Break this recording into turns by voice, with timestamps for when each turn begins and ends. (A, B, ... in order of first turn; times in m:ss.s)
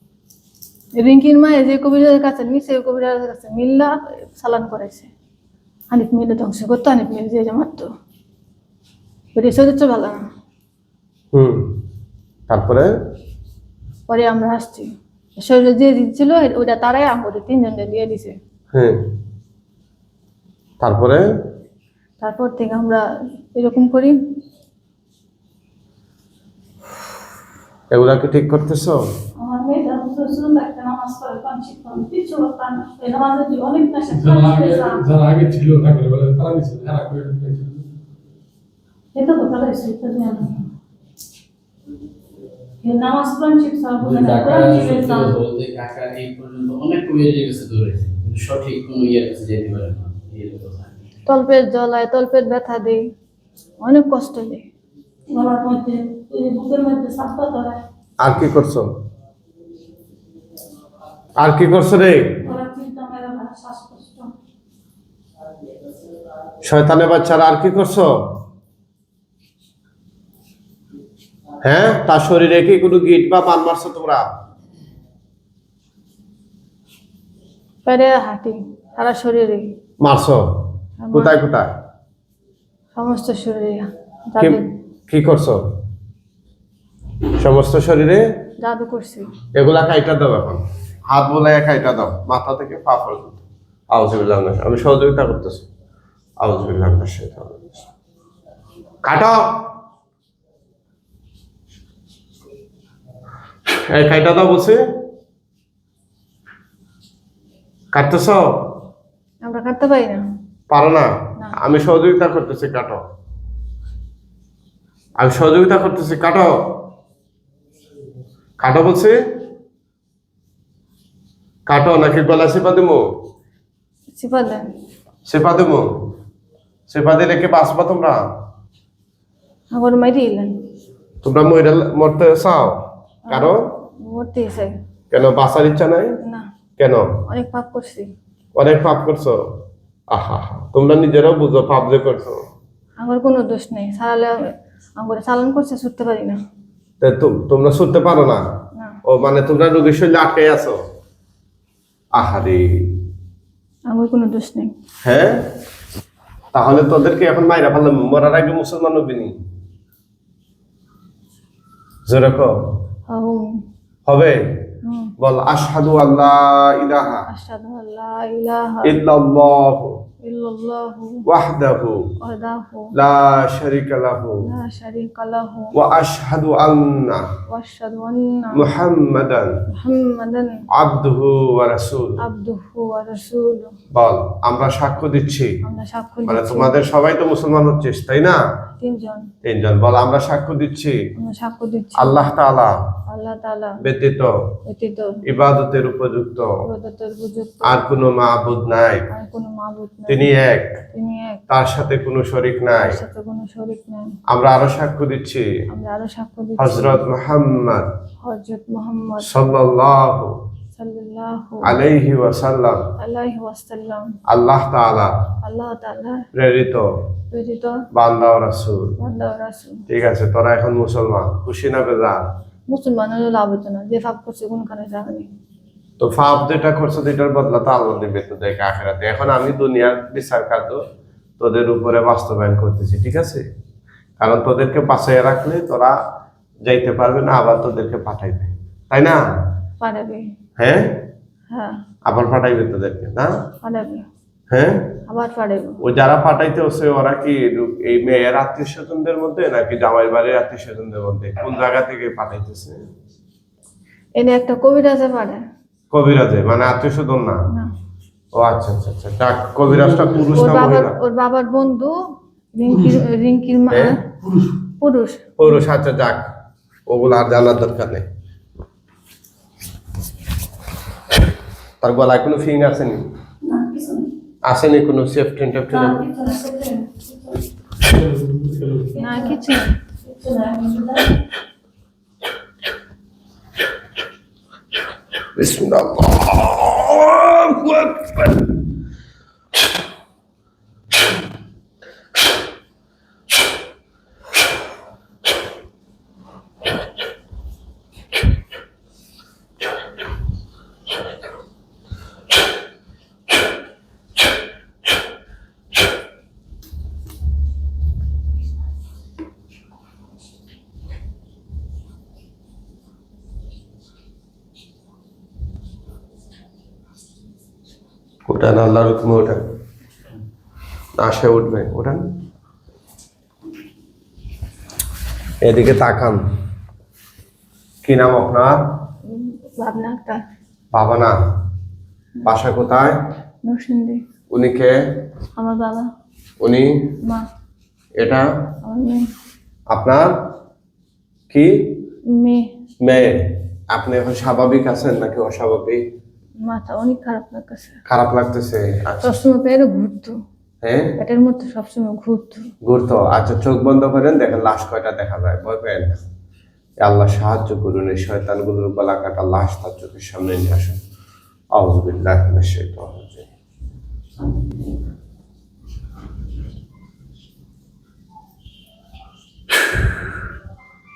0:01.0-0:05.1 A
0:05.9-0:07.9 A
0:09.3-0:10.2 A
0:11.3-0:11.7 B
0:12.5-0:12.9 B
0:14.1-0:18.4 A
0:18.7-0:19.0 B
0:20.8-0:21.2 B
0:22.2-0:23.0 A
0:23.5-0:24.1 A
0:27.9-0:29.0 B
0:29.4-0:35.0 C
0:34.1-0:37.9 D
0:39.1-0:40.6 C
0:42.8-0:45.4 C
0:44.0-0:51.0 E
0:51.2-0:53.0 A
0:53.8-0:54.6 A
0:55.3-0:57.8 C
0:58.2-0:58.9 B
1:01.4-1:02.4 B
1:02.4-1:04.3 C
1:06.6-1:08.1 B
1:11.6-1:14.2 B
1:17.8-1:19.6 A
1:20.0-1:20.4 B
1:21.0-1:21.4 A
1:21.1-1:21.7 B
1:23.0-1:24.6 A
1:24.4-1:25.6 B
1:27.4-1:28.2 B
1:28.6-1:29.3 A
1:29.5-1:35.7 B
1:36.4-1:37.8 B
1:39.0-1:39.4 B
1:43.9-1:44.8 B
1:47.9-1:48.4 B
1:49.4-1:50.2 A
1:50.7-1:51.1 B
1:51.6-1:53.0 B
1:55.2-1:56.5 B
1:58.6-1:59.1 B
2:01.7-2:03.0 B
2:04.2-2:04.6 A
2:05.2-2:05.8 B
2:06.9-2:08.2 B
2:09.7-2:10.5 A
2:11.2-2:13.6 B
2:13.3-2:14.7 A
2:15.1-2:16.1 B
2:16.8-2:17.2 B
2:17.3-2:18.1 A
2:18.5-2:19.4 B
2:20.1-2:22.4 B
2:23.0-2:24.3 A
2:25.0-2:26.4 A
2:27.0-2:28.4 B
2:29.1-2:30.8 B
2:32.1-2:33.0 B
2:33.9-2:34.7 A
2:35.0-2:35.5 B
2:36.5-2:39.3 B
2:42.0-2:42.5 B
2:43.1-2:43.4 A
2:44.0-2:44.4 B
2:44.8-2:45.1 A
2:45.2-2:47.2 B
2:47.3-2:49.0 A
2:48.8-2:50.0 B
2:50.2-2:51.2 A
2:51.3-2:52.1 B
2:52.2-2:52.9 A
2:53.0-2:54.4 B
2:54.4-2:55.7 A
2:55.7-2:57.2 B
2:57.5-2:58.6 A
2:58.5-2:59.5 B
2:59.7-3:00.5 A
3:00.7-3:02.2 B
3:02.2-3:03.7 A
3:03.9-3:05.6 B
3:05.6-3:06.7 A
3:06.3-3:08.4 B
3:08.8-3:09.3 A
3:09.4-3:11.0 B
3:11.2-3:12.3 A
3:12.0-3:12.7 B
3:13.1-3:13.8 A
3:13.8-3:14.3 B
3:14.7-3:15.1 A
3:15.3-3:16.5 B
3:16.6-3:17.9 A
3:17.6-3:19.1 B
3:19.1-3:20.3 A
3:20.1-3:20.6 B
3:20.9-3:21.4 A
3:21.5-3:23.0 B
3:22.8-3:24.2 A
3:24.3-3:25.4 B
3:25.7-3:27.0 A
3:26.6-3:27.9 B
3:28.2-3:29.3 A
3:29.2-3:30.4 B
3:30.7-3:31.8 A
3:31.6-3:32.9 B
3:33.0-3:34.2 A
3:34.3-3:35.3 B
3:35.4-3:36.3 A
3:36.3-3:36.9 B
3:37.3-3:37.8 A
3:37.9-3:39.0 B
3:39.0-3:39.8 A
3:39.9-3:42.3 B
3:42.7-3:45.3 A
3:46.0-3:50.8 B
3:51.4-3:53.4 B
3:54.2-3:55.9 B
3:56.6-3:59.2 B
3:59.8-4:00.2 A
4:00.6-4:01.0 B
4:02.0-4:03.3 B
4:03.6-4:04.0 A
4:04.5-4:04.9 B
4:05.1-4:05.8 A
4:05.8-4:12.8 B
4:14.2-4:15.4 A
4:15.9-4:17.4 B
4:18.3-4:21.0 B
4:19.6-4:20.3 D
4:20.3-4:21.9 A
4:22.5-4:24.0 A
4:22.7-4:23.0 D
4:24.2-4:24.6 D
4:24.8-4:25.4 A
4:25.4-4:26.3 B
4:26.9-4:28.0 B
4:31.8-4:33.0 B
4:33.4-4:34.1 C
4:34.4-4:36.0 B
4:35.7-4:37.4 C
4:37.8-4:39.0 D
4:39.0-4:39.7 A
4:39.0-4:39.4 C
4:40.0-4:41.2 C
4:45.4-4:48.6 B
5:18.2-5:19.4 B
5:21.0-5:22.0 B
5:25.4-5:26.2 B
5:27.8-5:28.6 B
5:29.1-5:30.2 A
5:30.7-5:31.2 B
5:32.2-5:33.0 B
5:33.4-5:34.0 A
5:34.3-5:34.7 B
5:35.4-5:35.9 A
5:36.4-5:36.9 B
5:38.0-5:38.2 B
5:38.6-5:39.0 A
5:39.7-5:40.1 B
5:41.3-5:41.8 B
5:42.1-5:42.4 A
5:42.8-5:45.8 B
5:46.4-5:47.8 A
5:47.9-5:49.2 B
5:49.0-5:50.1 A
5:50.6-5:50.9 B
5:51.0-5:52.4 A
5:52.6-5:56.0 B
5:56.8-6:00.8 B
6:01.5-6:03.3 B